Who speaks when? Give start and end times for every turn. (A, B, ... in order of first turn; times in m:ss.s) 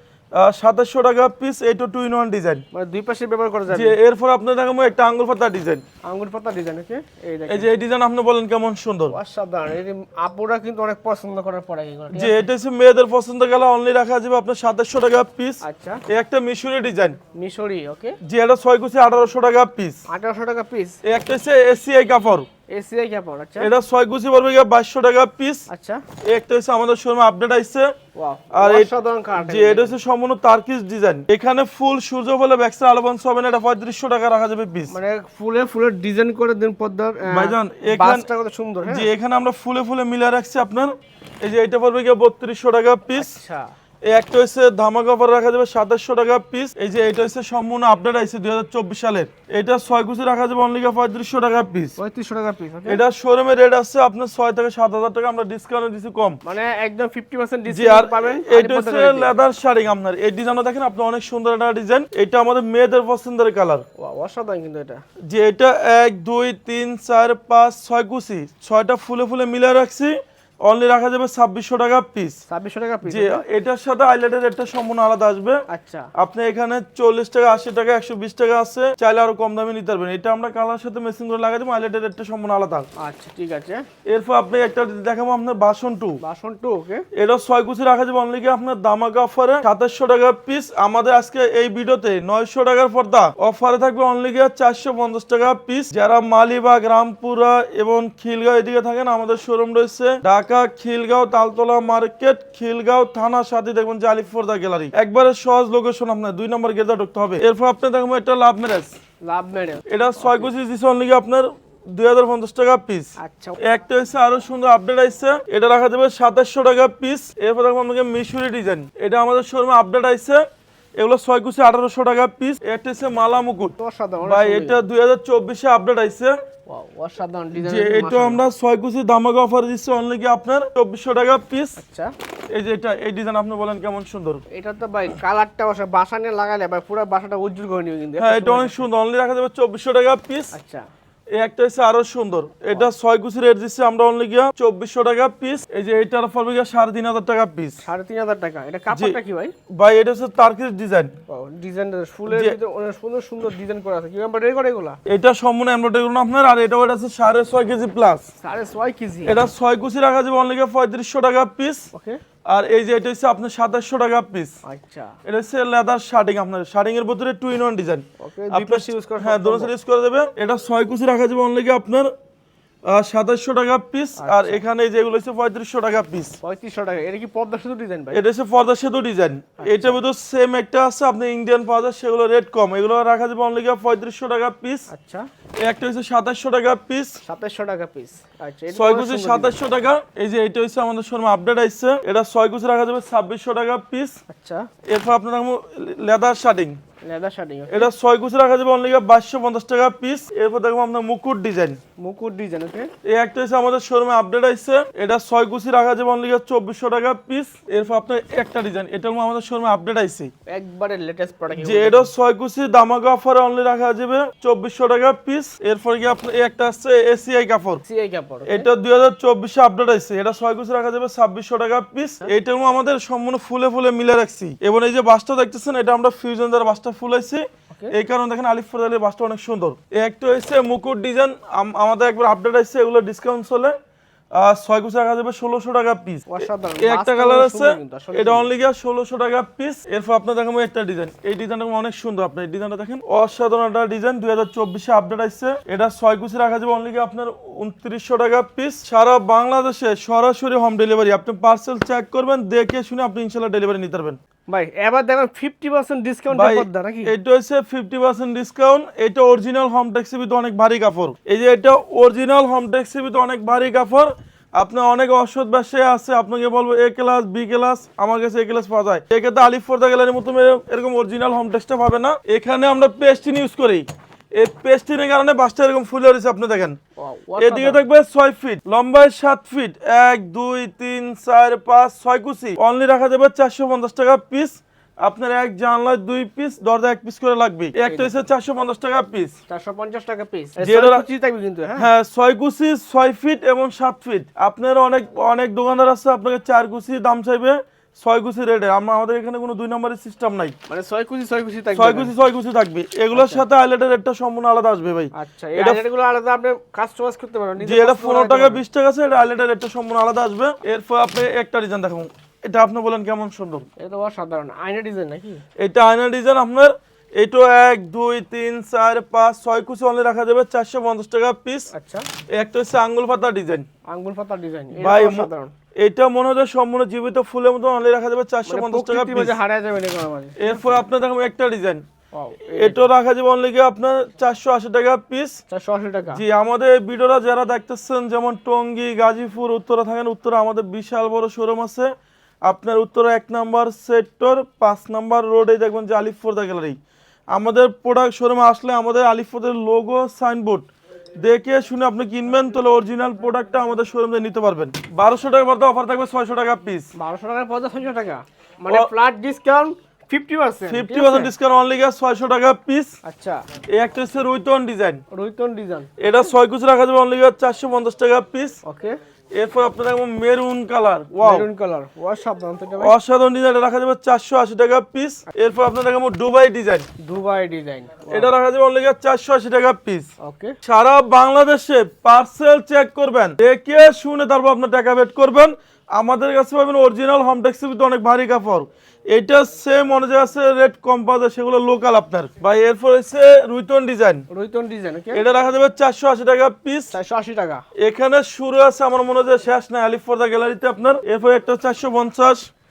0:00.3-0:02.6 A
0:02.7-0:04.0 B
0:03.7-0:05.8 A
0:06.1-0:07.7 B
0:07.5-0:09.2 A
0:09.1-0:12.5 B
0:12.1-0:17.2 A
0:15.6-0:16.0 B
0:17.3-0:18.2 B
0:18.2-0:20.0 A
0:20.1-0:21.0 B
0:21.0-0:22.5 A
0:22.7-0:23.7 B
0:23.6-0:25.6 A
0:25.7-0:26.0 B
0:26.3-0:27.9 A
0:28.2-0:30.0 B
0:28.5-0:34.9 A
0:34.9-0:39.1 B
0:37.3-0:38.3 A
0:38.9-0:43.3 A
0:43.1-0:43.6 B
0:44.1-0:52.0 A
0:52.0-0:53.0 B
0:52.9-0:56.4 A
0:56.4-0:59.3 B
0:57.7-1:03.8 A
1:04.0-1:05.0 B
1:05.3-1:12.4 A
1:12.5-1:13.4 B
1:13.1-1:15.6 A
1:15.7-1:16.1 B
1:16.2-1:22.9 A
1:23.0-1:23.8 B
1:24.1-1:26.2 A
1:26.2-1:27.0 B
1:27.1-1:48.9 A
1:49.2-1:50.5 B
1:49.9-1:53.1 A
1:53.2-1:53.6 B
1:53.6-2:00.4 A
2:01.0-2:06.3 A
2:03.8-2:04.8 B
2:06.7-2:08.4 B
2:07.6-2:11.8 A
2:11.8-2:12.1 B
2:12.5-2:14.4 A
2:14.5-2:18.9 B
2:18.2-2:20.5 A
2:20.5-2:20.8 B
2:21.4-2:27.8 A
2:27.8-2:29.5 B
2:28.9-2:29.2 A
2:29.8-2:31.1 A
2:31.3-2:35.0 B
2:32.3-2:32.6 A
2:35.0-2:38.3 A
2:38.4-2:39.4 B
2:39.2-2:41.9 A
2:41.9-2:42.2 B
2:42.5-2:44.5 A
2:44.6-2:45.1 B
2:45.2-2:52.1 A
2:48.2-2:49.7 B
2:52.9-2:56.4 A
2:54.2-2:54.6 B
2:56.4-2:58.2 B
2:58.1-3:04.9 A
2:59.6-3:00.0 B
3:04.9-3:05.3 B
3:05.6-3:07.2 A
3:07.2-3:09.5 B
3:08.7-3:14.2 A
3:14.3-3:14.7 B
3:14.9-3:16.8 A
3:17.0-3:17.9 B
3:17.7-3:21.8 A
3:22.0-3:22.9 B
3:23.0-3:30.3 A
3:30.5-3:32.1 B
3:31.6-3:37.8 A
3:37.8-3:38.7 B
3:38.4-3:53.7 A
3:54.4-4:14.2 A
3:56.3-3:58.5 B
4:14.5-4:17.1 B
4:16.3-4:33.8 A
4:34.4-4:36.8 A
4:37.0-4:37.8 B
4:37.4-4:49.4 A
4:47.9-4:48.2 B
4:49.5-4:51.9 B
4:50.6-4:51.0 A
4:51.8-5:00.5 A
5:00.7-5:02.1 B
5:01.8-5:05.8 A
5:03.1-5:03.4 B
5:05.2-5:08.6 B
5:07.6-5:13.7 A
5:13.8-5:15.4 B
5:15.6-5:21.7 A
5:21.7-5:22.1 B
5:22.3-5:23.7 A
5:23.9-5:25.5 B
5:24.8-5:25.3 A
5:25.8-5:29.4 A
5:28.4-5:30.8 B
5:30.4-5:31.8 A
5:32.1-5:32.9 B
5:32.5-5:35.4 A
5:35.5-5:36.2 B
5:36.1-5:41.9 A
5:42.5-5:46.8 A
5:47.3-5:50.7 A
5:51.2-5:56.9 A
5:57.0-6:01.3 B
6:00.7-6:02.9 A
6:03.0-6:03.4 B
6:03.8-6:05.0 A
6:05.1-6:05.9 B
6:06.0-6:08.6 A
6:08.6-6:09.0 B
6:09.4-6:11.5 A
6:11.2-6:13.0 B
6:12.8-6:16.9 A
6:17.0-6:18.3 B
6:18.1-6:20.1 A
6:20.2-6:20.6 B
6:20.6-6:34.2 A
6:34.3-6:35.2 B
6:35.1-6:36.9 A
6:36.9-6:37.6 B
6:37.8-6:42.4 A